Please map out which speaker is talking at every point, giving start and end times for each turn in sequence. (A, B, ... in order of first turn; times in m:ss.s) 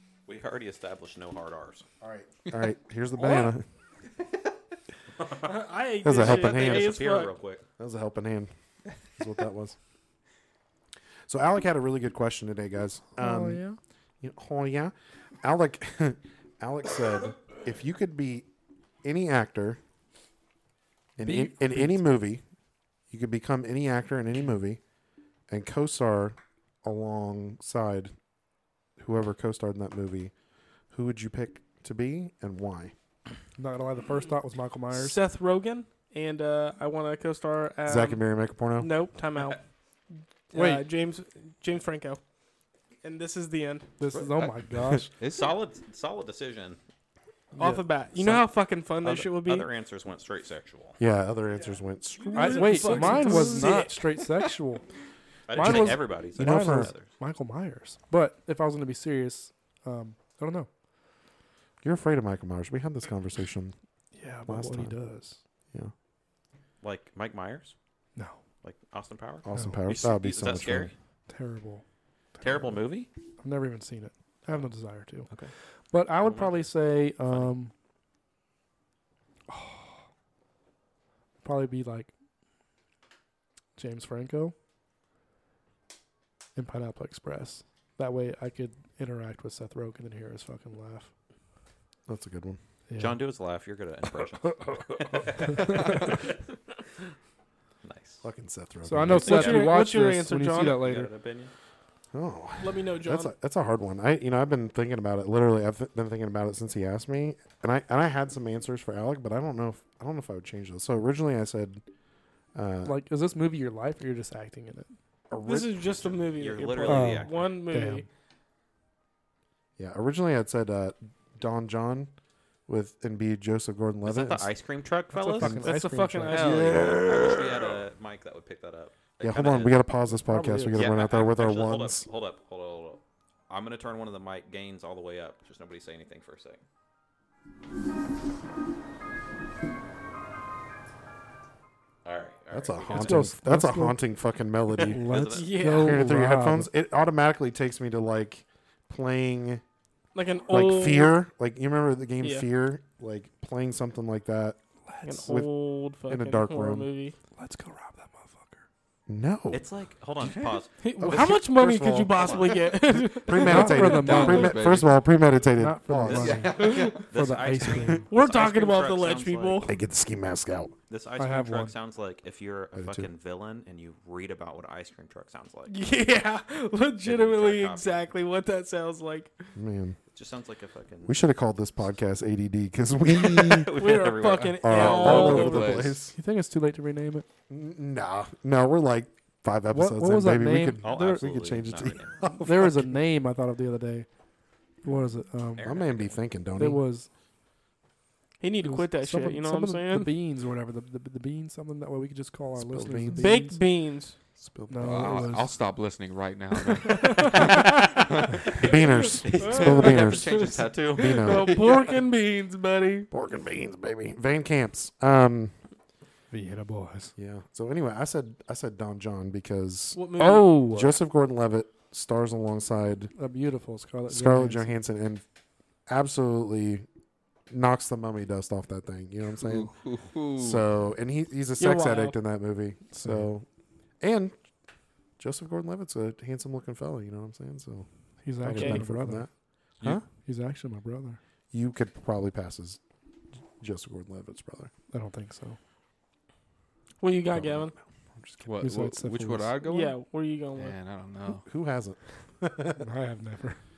0:00.3-0:01.9 A
0:02.0-0:03.6 B
0:03.2-0:03.5 C
0:05.2-0:07.6 A
0:05.4-0:07.4 C
0:06.0-0:07.0 B
0:07.8-0:08.5 B
0:09.0-0:09.8 B
0:11.3-0:13.6 B
0:13.2-0:13.8 D
0:14.2-0:18.5 B
0:19.0-0:19.8 B
0:21.2-0:22.4 B
0:21.2-0:22.0 D
0:23.1-0:24.8 B
0:25.5-0:28.1 B
0:29.0-0:30.3 B
0:30.9-0:32.9 B
0:33.6-0:35.2 D
0:34.9-0:39.6 C
0:37.9-0:38.9 B
0:40.5-0:42.2 C
0:40.5-0:40.8 D
0:43.0-0:43.9 C
0:44.0-0:45.1 D
0:44.2-0:44.5 E
0:45.2-0:45.5 E
0:45.3-0:46.8 A
0:47.6-0:47.8 D
0:47.6-0:49.7 C
0:48.2-0:48.4 B
0:49.0-0:51.0 A
0:51.0-0:53.5 B
0:52.2-0:54.0 C
0:52.4-0:54.8 D
0:55.5-0:57.1 A
0:55.5-1:00.7 D
0:55.6-0:56.9 B
1:01.8-1:03.7 B
1:04.1-1:05.4 D
1:04.5-1:05.0 B
1:06.8-1:07.8 A
1:08.6-1:10.9 A
1:09.4-1:10.9 B
1:09.5-1:09.8 D
1:11.3-1:11.8 D
1:12.4-1:12.8 D
1:12.4-1:13.1 A
1:13.4-1:15.3 D
1:15.9-1:17.7 D
1:16.2-1:16.7 A
1:19.5-1:20.0 D
1:21.4-1:22.1 D
1:23.8-1:24.5 D
1:26.6-1:31.1 D
1:32.1-1:32.6 B
1:32.9-1:33.2 D
1:33.0-1:34.6 A
1:35.3-1:36.2 A
1:37.8-1:38.2 A
1:38.2-1:39.6 B
1:38.8-1:41.1 D
1:39.2-1:40.8 C
1:39.2-1:39.7 A
1:40.6-1:41.5 A
1:42.1-1:51.8 B
1:42.6-1:43.3 C
1:52.5-1:53.0 B
1:52.8-1:54.9 D
1:55.3-1:56.3 B
1:55.5-1:58.0 C
1:56.4-1:57.4 A
1:56.9-1:58.1 D
1:59.8-2:02.1 B
2:02.7-2:04.5 B
2:04.0-2:05.6 A
2:05.1-2:06.6 D
2:05.4-2:05.7 B
2:05.6-2:07.0 C
2:06.3-2:09.8 A
2:06.4-2:07.8 B
2:09.2-2:12.1 B
2:10.3-2:10.9 D
2:10.7-2:16.6 A
2:22.0-2:23.2 A
2:22.5-2:25.1 B
2:23.0-2:24.0 D
2:24.8-2:26.7 D
2:25.0-2:25.6 A
2:25.3-2:26.1 C
2:25.6-2:29.6 B
2:30.1-2:31.2 C
2:30.5-2:34.6 B
2:32.2-2:32.5 C
2:34.9-2:35.3 D
2:35.0-2:37.2 C
2:35.2-2:36.9 B
2:37.4-2:38.7 D
2:39.1-2:39.6 B
2:39.5-2:41.4 A
2:40.8-2:44.3 C
2:41.0-2:46.7 B
2:42.1-2:42.8 A
2:43.4-2:44.6 D
2:43.8-2:45.0 E
2:45.5-2:48.1 D
2:46.0-2:47.1 E
2:46.6-2:47.0 C
2:47.1-2:49.7 A
2:48.1-2:49.7 C
2:49.7-2:50.8 B
2:50.9-2:55.8 A
2:51.2-2:51.7 D
2:52.8-2:53.1 B
2:55.7-2:59.4 C
2:57.0-2:58.1 A
2:59.6-3:00.0 B
3:00.1-3:01.2 A
3:01.1-3:03.8 B
3:03.1-3:05.6 A
3:03.8-3:05.9 C
3:04.6-3:06.2 B
3:04.7-3:06.0 E
3:06.1-3:07.3 D
3:07.5-3:12.9 B
3:09.7-3:11.1 D
3:10.8-3:12.2 A
3:12.4-3:14.1 D
3:14.8-3:15.7 D
3:15.6-3:16.2 A
3:15.6-3:16.8 B
3:16.6-3:17.1 D
3:18.4-3:20.1 C
3:18.6-3:23.6 D
3:22.6-3:23.3 B
3:23.2-3:24.2 C
3:24.4-3:25.3 B
3:24.7-3:25.5 D
3:24.8-3:28.5 E
3:26.8-3:33.1 C
3:28.6-3:31.6 B
3:29.2-3:31.7 A
3:29.9-3:30.5 E
3:33.1-3:35.6 B
3:36.3-3:37.1 D
3:37.2-3:40.0 B
3:39.9-3:40.5 C
3:40.2-3:41.0 D
3:40.6-3:43.1 B
3:43.2-3:44.8 D
3:44.1-3:45.2 B
3:45.9-3:46.9 B
3:47.5-3:49.7 B
3:49.4-3:50.6 E
3:50.4-3:53.4 B
3:51.6-3:52.2 C
3:53.0-3:53.3 D
3:54.0-3:54.4 B
3:55.2-3:59.3 B
3:58.2-3:59.3 D
3:58.5-3:58.8 C
4:00.2-4:01.2 D
4:01.5-4:02.8 B
4:03.6-4:04.7 B
4:04.9-4:05.6 D
4:07.0-4:07.7 C
4:07.3-4:08.5 B
4:08.4-4:10.0 E
4:08.6-4:09.6 D
4:09.6-4:10.8 C
4:10.6-4:11.5 E
4:11.4-4:12.8 B
4:12.8-4:13.6 D